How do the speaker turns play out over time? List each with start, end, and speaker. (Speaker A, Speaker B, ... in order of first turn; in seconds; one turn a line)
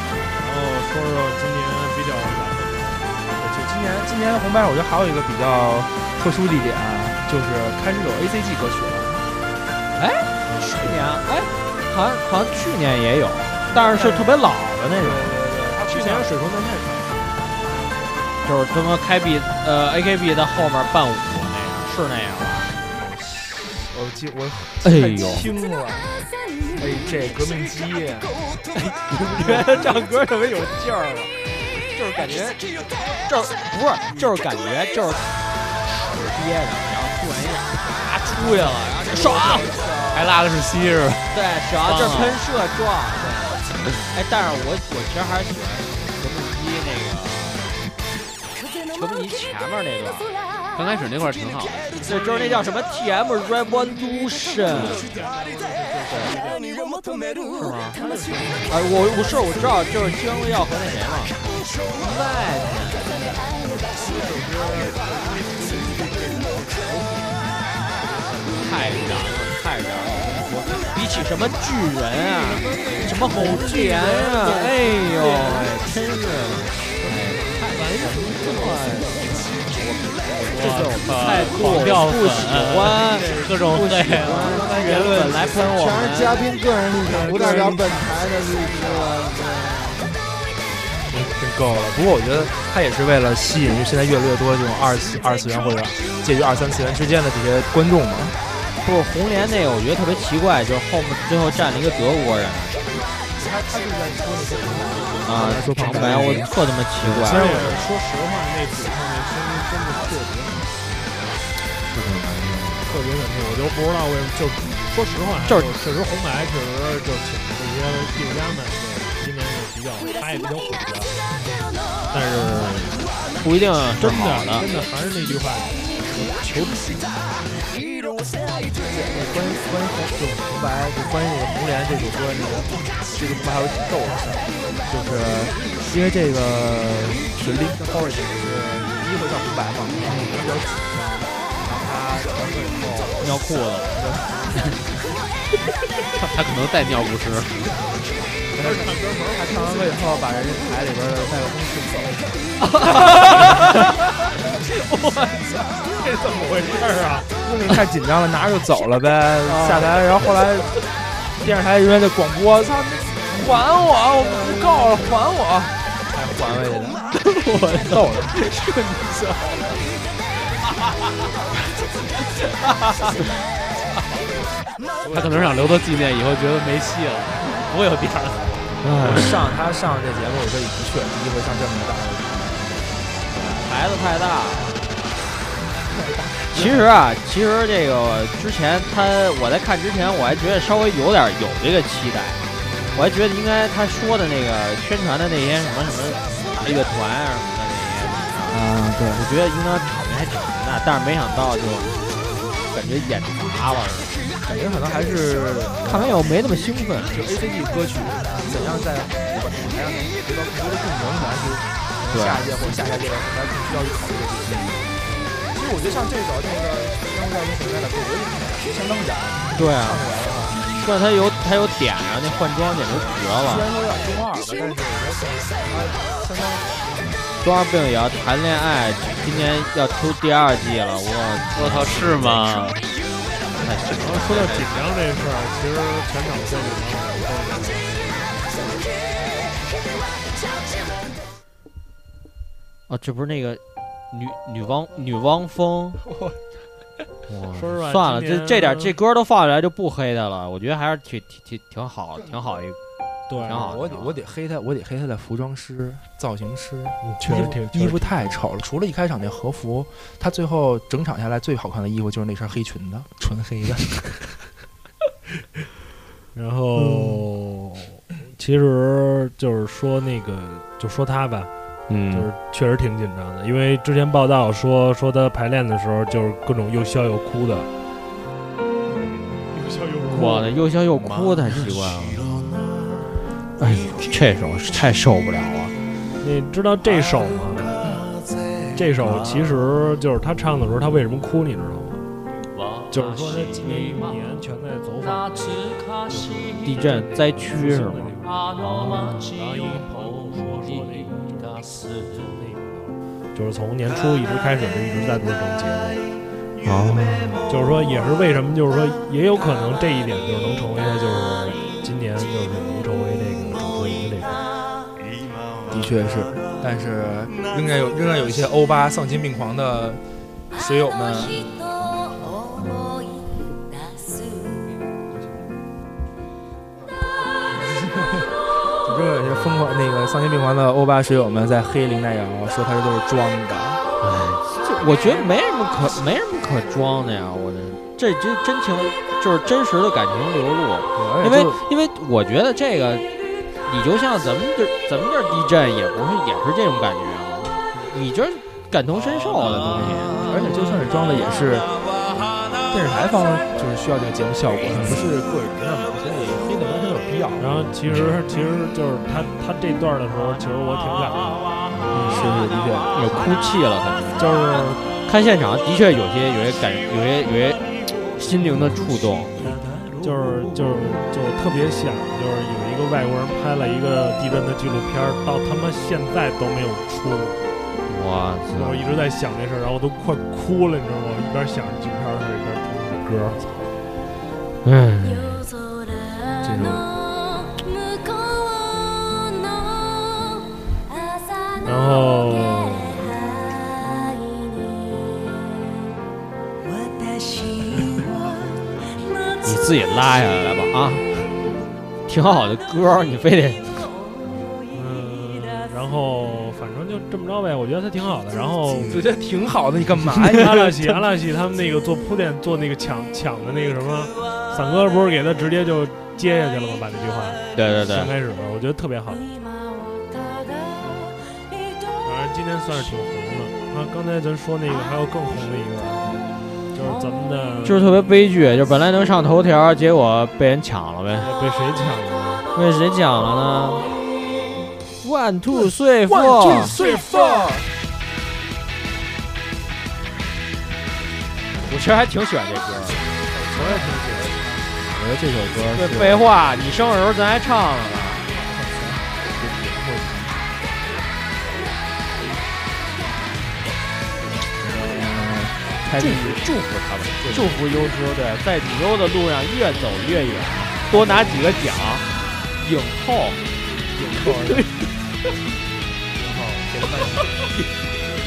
Speaker A: 0.3-3.2
Speaker B: 3.3-9.2
Speaker C: 10.0-15.4
Speaker A: 10.4-11.1
Speaker B: 13.9-14.2
Speaker B: 14.9-16.4
Speaker A: 15.7-17.9
Speaker C: 18.4-22.7
Speaker B: 22.9-26.1
Speaker C: 24.8-25.5
Speaker B: 26.8-28.3
Speaker C: 28.7-31.3
Speaker B: 29.3-29.6
Speaker C: 31.9-32.6
Speaker C: 33.2-39.7
Speaker B: 39.1-39.8
Speaker D: 40.1-42.4
Speaker C: 41.3-47.6
Speaker C: 48.9-50.3
Speaker D: 50.7-52.0
Speaker A: 52.0-52.6
Speaker C: 52.0-55.0
Speaker A: 54.7-56.7
Speaker C: 57.6-58.0
Speaker A: 57.9-59.0
Speaker C: 58.7-61.3
Speaker C: 61.9-63.5
Speaker A: 64.0-67.4
Speaker A: 68.0-68.5
Speaker C: 68.5-86.5
Speaker A: 72.5-75.7
Speaker A: 77.0-79.8
Speaker D: 80.5-85.3
Speaker A: 80.6-81.9
Speaker A: 83.2-83.5
Speaker A: 84.5-85.3
Speaker E: 84.8-89.1
Speaker A: 87.0-88.1
Speaker B: 87.3-87.8
Speaker C: 88.5-90.1
Speaker B: 91.1-98.3
Speaker C: 98.8-102.8
Speaker B: 103.3-107.9
Speaker C: 105.2-107.7
Speaker A: 107.2-110.7
Speaker C: 112.0-112.8
Speaker A: 112.8-121.1
Speaker A: 122.1-123.1
Speaker C: 123.4-124.7
Speaker A: 124.0-127.1
Speaker B: 128.8-143.3
Speaker C: 140.1-140.4
Speaker C: 143.2-144.0
Speaker B: 143.9-144.4
Speaker D: 146.2-147.8
Speaker B: 148.5-152.4
Speaker A: 148.6-149.9
Speaker C: 152.6-153.9
Speaker C: 154.7-155.4
Speaker A: 155.9-157.4
Speaker B: 157.4-160.8
Speaker C: 159.5-160.0
Speaker B: 161.3-167.0
Speaker C: 167.1-169.7
Speaker B: 167.8-168.3
Speaker B: 175.0-175.6
Speaker D: 175.1-178.8
Speaker C: 178.8-179.3
Speaker B: 179.0-183.1
Speaker D: 183.3-183.6
Speaker C: 183.3-184.9
Speaker B: 185.9-186.8
Speaker C: 186.5-192.4
Speaker B: 192.8-193.1
Speaker C: 192.9-198.6
Speaker B: 198.5-199.3
Speaker C: 199.1-201.9
Speaker C: 202.7-204.1
Speaker B: 204.4-206.3
Speaker C: 205.8-207.2
Speaker B: 207.1-214.9
Speaker C: 212.1-212.4
Speaker B: 215.5-220.7
Speaker C: 219.5-220.0
Speaker C: 220.7-223.7
Speaker B: 223.4-227.2
Speaker C: 227.4-232.4
Speaker D: 231.5-232.8
Speaker C: 233.6-234.4
Speaker D: 233.6-234.8
Speaker A: 233.9-238.7
Speaker C: 242.9-246.0
Speaker C: 247.3-252.8
Speaker A: 247.5-249.0
Speaker A: 253.3-253.7
Speaker B: 253.4-264.4
Speaker C: 253.4-254.2
Speaker A: 257.0-258.5
Speaker A: 266.3-271.5
Speaker B: 266.8-267.2
Speaker C: 271.9-272.3
Speaker A: 272.1-277.7
Speaker A: 279.5-280.5
Speaker C: 280.1-282.3
Speaker C: 283.6-285.7
Speaker A: 286.2-287.8
Speaker A: 288.7-292.0
Speaker A: 292.9-306.0
Speaker C: 296.6-298.1
Speaker C: 298.7-299.2
Speaker C: 306.6-307.4
Speaker A: 307.5-314.4
Speaker B: 315.7-320.0
Speaker B: 320.5-321.5
Speaker B: 327.6-328.2
Speaker B: 328.8-333.8
Speaker C: 334.0-343.1
Speaker B: 340.9-341.6
Speaker C: 343.6-350.2
Speaker B: 350.1-351.7
Speaker B: 352.7-357.7
Speaker C: 354.7-355.0
Speaker A: 357.4-361.5
Speaker C: 357.9-358.1
Speaker C: 361.9-362.4
Speaker B: 361.9-363.3
Speaker C: 362.9-367.6
Speaker A: 364.2-364.8
Speaker C: 368.1-369.3
Speaker A: 369.4-377.4
Speaker C: 377.9-378.9
Speaker A: 378.5-383.7
Speaker C: 384.6-385.5
Speaker B: 386.4-386.9
Speaker A: 391.6-393.1
Speaker C: 399.4-401.3
Speaker C: 402.1-403.8
Speaker A: 404.7-409.0
Speaker B: 408.7-411.0
Speaker A: 410.2-419.2
Speaker C: 417.5-418.1
Speaker A: 422.0-427.9
Speaker C: 427.6-431.3
Speaker A: 431.2-432.5
Speaker C: 432.5-433.9
Speaker C: 435.0-436.8
Speaker B: 436.1-437.7
Speaker A: 436.7-437.1
Speaker C: 441.6-443.1
Speaker B: 443.3-446.2
Speaker A: 443.5-444.3
Speaker C: 445.7-448.2
Speaker B: 448.3-450.4
Speaker B: 454.6-456.5
Speaker C: 455.9-462.0
Speaker B: 457.2-457.6
Speaker B: 460.9-461.3
Speaker C: 462.6-463.4
Speaker B: 463.9-464.7
Speaker C: 464.1-464.8
Speaker B: 466.1-467.4